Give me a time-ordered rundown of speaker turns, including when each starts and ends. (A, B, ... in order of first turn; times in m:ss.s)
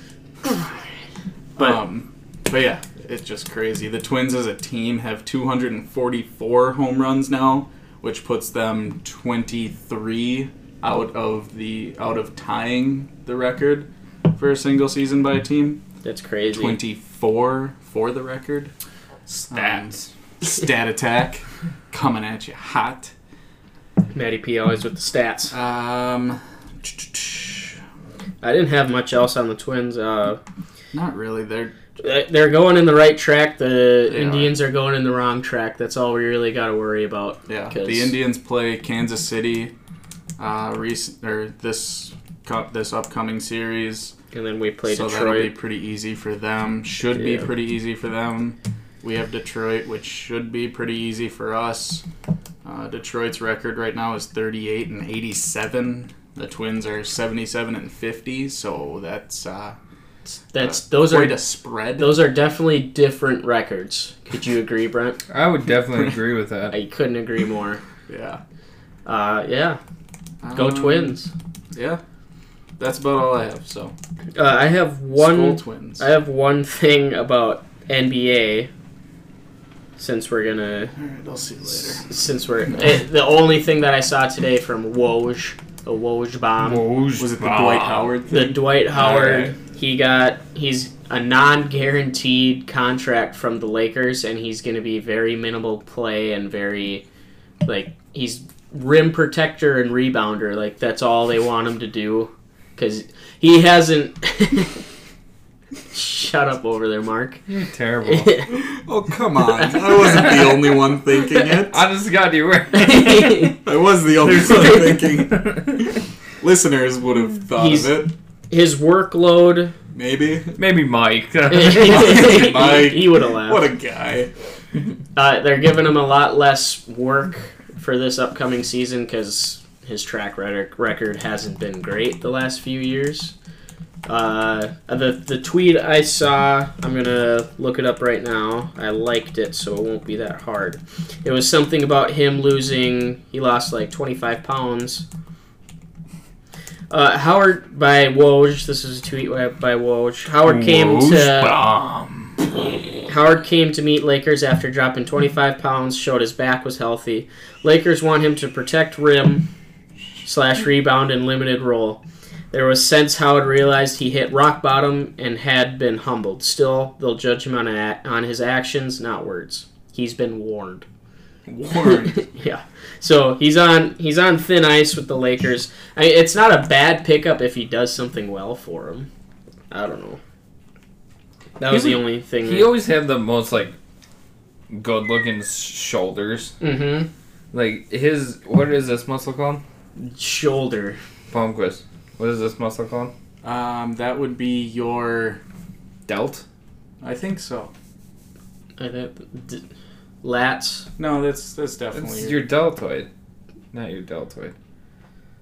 0:01.6-0:15.8 A
0:16.0-0:16.8 B
0:16.5-0:18.7 A
0:19.3-0:23.1 A
0:19.5-0:20.1 C
0:24.1-0:25.5 B
0:25.5-0:27.8 A
0:28.4-0:30.4 B
0:30.9-0:31.7 A
0:32.0-0:38.1 B
0:34.1-0:34.5 A
0:37.5-0:39.7 A
0:40.4-0:44.1 A
0:44.3-0:45.5 B
0:44.9-0:52.0 A
0:47.2-0:47.5 B
0:52.6-0:59.8 A
1:00.5-1:01.4 B
1:00.6-1:02.2 A
1:02.0-1:05.2 B
1:05.3-1:06.8 C
1:06.7-1:07.8 B
1:08.1-1:08.4 A
1:09.1-1:09.8 B
1:10.4-1:11.2 A
1:10.5-1:11.3 B
1:11.7-1:12.0 A
1:12.8-1:13.9 A
1:14.4-1:18.7 B
1:15.2-1:16.0 A
1:20.0-1:20.9 B
1:21.0-1:22.0 A
1:22.0-1:26.8 B
1:26.6-1:28.1 C
1:27.2-1:29.5 A
1:28.3-1:37.0 B
1:37.6-1:44.8 B
1:45.9-1:47.4 B
1:47.5-1:48.4 C
1:48.0-1:48.5 B
1:48.5-1:51.8 A
1:51.7-1:53.6 C
1:52.7-1:53.6 B
1:53.6-1:58.1 A
1:54.2-1:55.7 C
1:57.6-1:59.7 B
1:59.9-2:00.6 A
2:00.6-2:02.4 C
2:01.5-2:03.7 B
2:01.7-2:04.3 A
2:05.2-2:13.3 B
2:14.1-2:25.0 B
2:26.9-2:31.6 B
2:30.4-2:32.4 C
2:33.1-2:39.5 B
2:40.2-2:42.0 B
2:42.5-2:50.8 B
2:51.5-2:52.3 A
2:52.0-2:59.1 B
2:59.7-3:00.2 B
3:01.6-3:02.7 B
3:01.7-3:03.8 C
3:04.7-3:06.6 C
3:06.6-3:07.1 B
3:07.5-3:09.6 C
3:10.0-3:11.0 B
3:11.3-3:13.1 C
3:13.4-3:15.4 A
3:16.1-3:16.4 C
3:17.0-3:17.7 A
3:18.8-3:19.6 B
3:20.2-3:20.9 B
3:21.0-3:22.4 A
3:21.9-3:23.1 C
3:23.7-3:24.5 C